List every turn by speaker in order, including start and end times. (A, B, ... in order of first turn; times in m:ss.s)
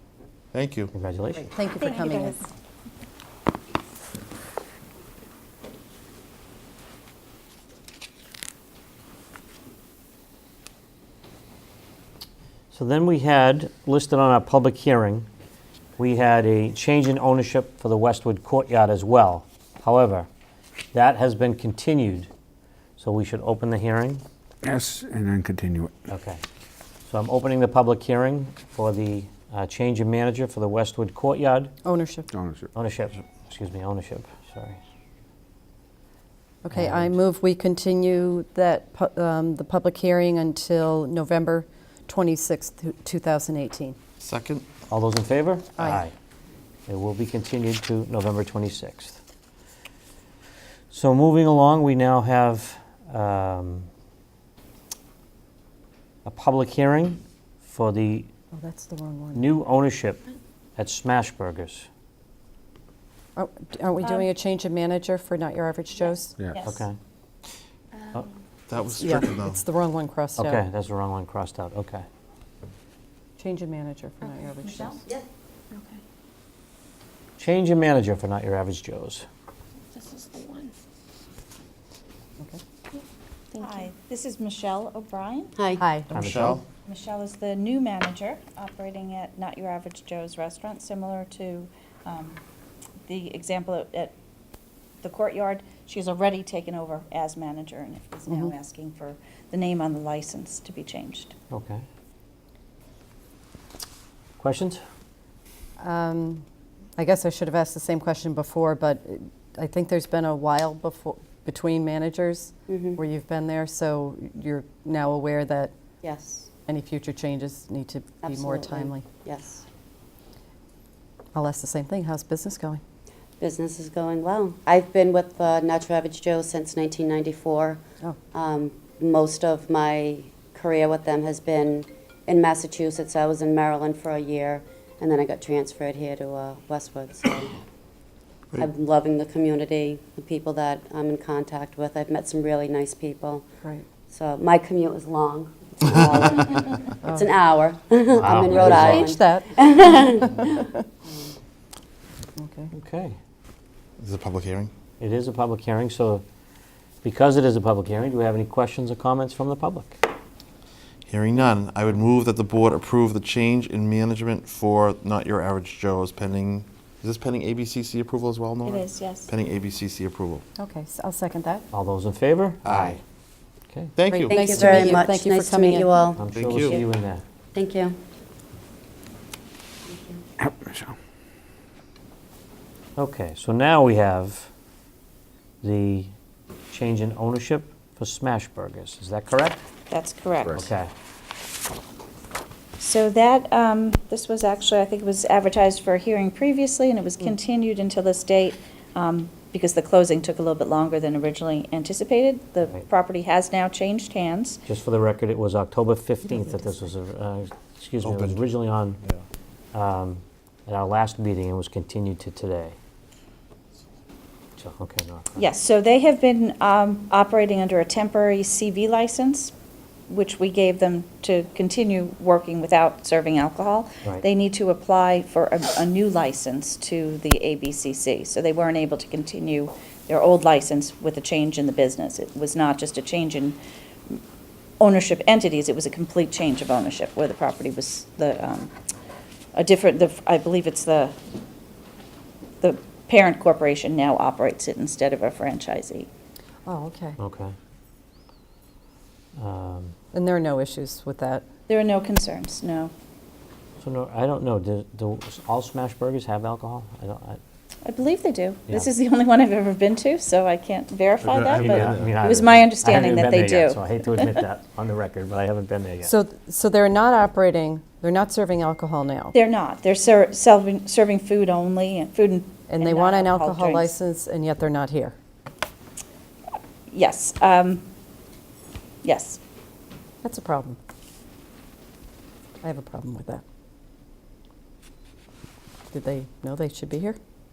0:00.5-0:00.9 A
0:00.9-0:01.5 B
0:01.4-0:02.4 C
0:01.8-0:02.4 D
0:12.7-0:15.3 B
0:16.0-0:20.3 B
0:20.9-0:22.3 B
0:23.0-0:24.2 B
0:24.6-0:26.0 E
0:26.1-0:26.4 B
0:27.0-0:31.7 B
0:31.8-0:32.3 C
0:32.3-0:32.7 E
0:32.7-0:34.8 B
0:36.6-0:44.0 C
0:36.7-0:37.1 B
0:44.2-0:44.7 A
0:44.9-0:46.1 B
0:45.8-0:46.0 C
0:46.9-0:49.2 B
0:50.9-0:53.9 B
0:56.2-0:58.3 B
0:58.5-0:59.5 C
0:59.4-1:00.2 B
1:00.8-1:01.9 B
1:03.4-1:06.4 C
1:04.0-1:04.3 F
1:06.5-1:06.8 F
1:06.6-1:07.0 B
1:08.7-1:09.6 A
1:09.0-1:10.6 C
1:10.4-1:12.0 B
1:13.4-1:15.0 C
1:14.6-1:15.0 D
1:15.7-1:16.0 D
1:17.4-1:19.2 B
1:19.9-1:20.7 D
1:23.5-1:23.9 D
1:23.6-1:25.5 F
1:25.6-1:25.8 G
1:25.8-1:26.1 C
1:26.1-1:26.6 B
1:26.1-1:26.6 A
1:26.8-1:32.4 F
1:33.0-1:34.1 F
1:35.0-1:41.3 F
1:38.3-1:38.5 C
1:41.5-1:41.8 B
1:44.4-1:44.8 B
1:45.8-1:46.4 C
1:47.0-1:55.7 C
1:52.7-1:53.0 G
1:56.0-1:56.5 G
1:56.7-1:59.0 C
1:58.2-1:59.6 G
2:01.3-2:02.8 C
2:03.4-2:07.8 G
2:08.3-2:17.6 G
2:18.6-2:23.4 G
2:24.1-2:30.5 G
2:27.0-2:27.3 C
2:28.1-2:29.1 B
2:28.6-2:30.7 C
2:31.1-2:31.3 G
2:32.4-2:32.7 C
2:32.7-2:33.2 B
2:34.0-2:34.7 A
2:35.0-2:36.2 B
2:37.0-2:40.0 B
2:41.0-2:50.4 A
2:48.6-2:49.3 F
2:50.6-2:51.6 C
2:51.7-2:53.0 B
2:52.6-2:53.0 A
2:53.7-2:53.9 B
2:54.0-2:54.9 A
2:54.1-2:56.1 C
2:54.3-2:56.2 G
2:56.1-2:57.2 B
2:56.3-2:56.8 A
2:57.5-2:58.0 G
2:59.8-3:00.2 G
3:00.4-3:01.0 E
3:03.0-3:04.5 B
3:05.6-3:06.1 B
3:06.7-3:09.6 B
3:09.9-3:10.6 F
3:10.5-3:10.9 B
3:12.8-3:24.6 F
3:24.6-3:29.0 B
3:28.0-3:28.5 A
3:29.7-3:32.8 B
3:34.6-3:35.4 B
3:35.4-3:39.5 F
3:40.1-3:53.6 F
3:54.8-3:58.7 F
3:59.5-4:01.1 F
4:02.6-4:06.1 F
4:06.6-4:07.2 C
4:07.2-4:07.5 B
4:09.4-4:09.9 B
4:10.1-4:11.4 C
4:11.7-4:12.9 F
4:13.8-4:17.4 B
4:17.8-4:24.4 F
4:21.3-4:22.1 E
4:21.4-4:26.1 B
4:26.0-4:29.3 C
4:29.3-4:33.9 F
4:32.7-4:35.1 C
4:36.9-4:37.8 F
4:39.0-4:39.4 F
4:40.2-4:40.8 C
4:42.6-4:43.4 C
4:45.9-4:47.2 C